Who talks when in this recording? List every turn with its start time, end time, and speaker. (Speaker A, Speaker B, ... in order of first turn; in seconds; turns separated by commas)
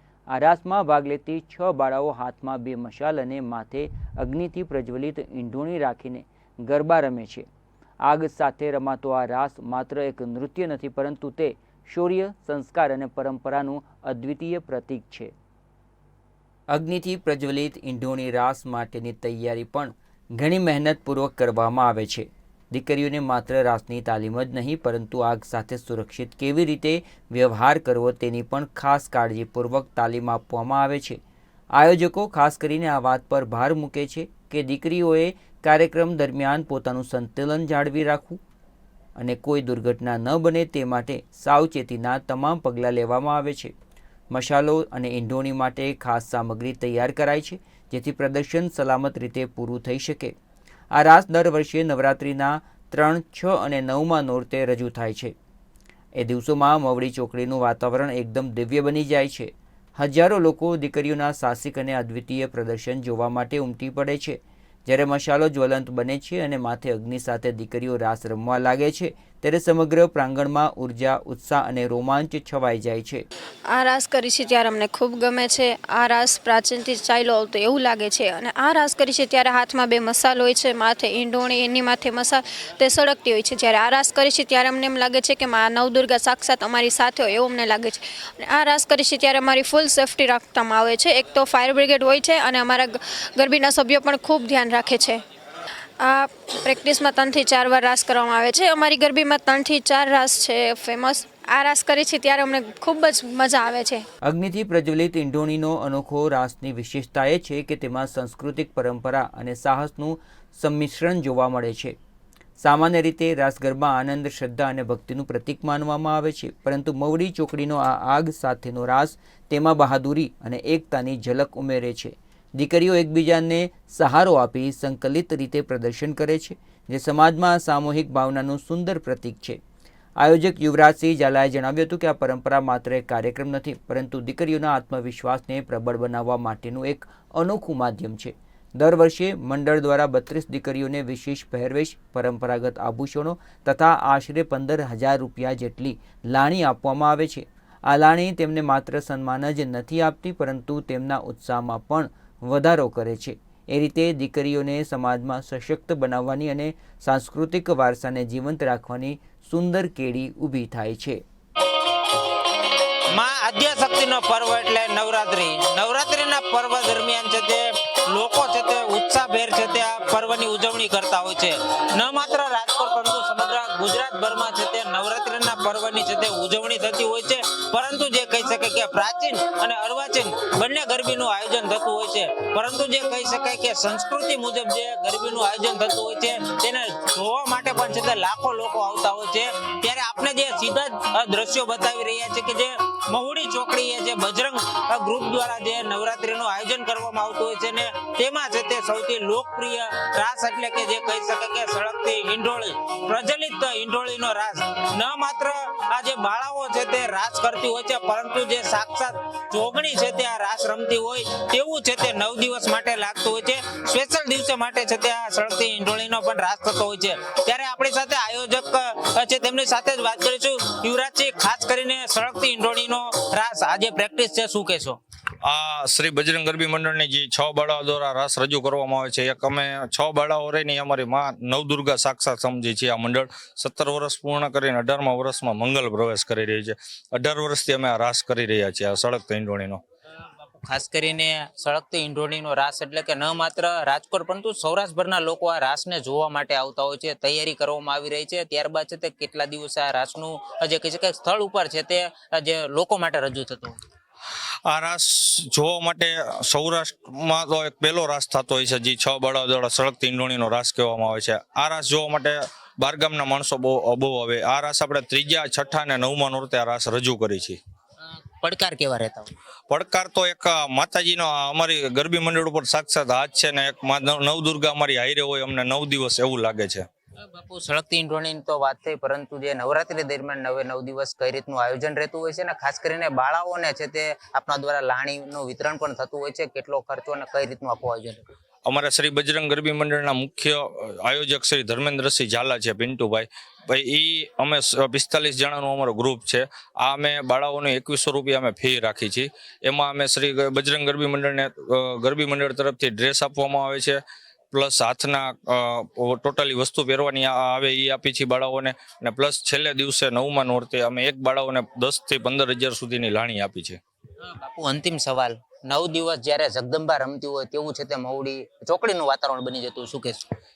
Speaker A: 0.3-7.5, Speaker A: 8.0-15.3, Speaker A: 16.7-31.2, Speaker A: 31.7-38.4, Speaker A: 39.2-43.7, Speaker A: 44.3-50.3, Speaker A: 50.9-55.3, Speaker A: 56.2-73.2, Speaker B: 73.7-95.2, Speaker B: 96.0-104.0, Speaker A: 104.2-111.9, Speaker A: 112.6-129.6, Speaker A: 130.2-161.2, Speaker C: 163.1-225.0, Speaker D: 225.4-239.8, Speaker C: 240.6-253.7, Speaker D: 254.7-267.6, Speaker C: 268.4-269.3, Speaker D: 269.7-276.8, Speaker C: 277.2-288.2, Speaker D: 288.7-304.0, Speaker D: 304.5-313.8, Speaker C: 314.2-320.2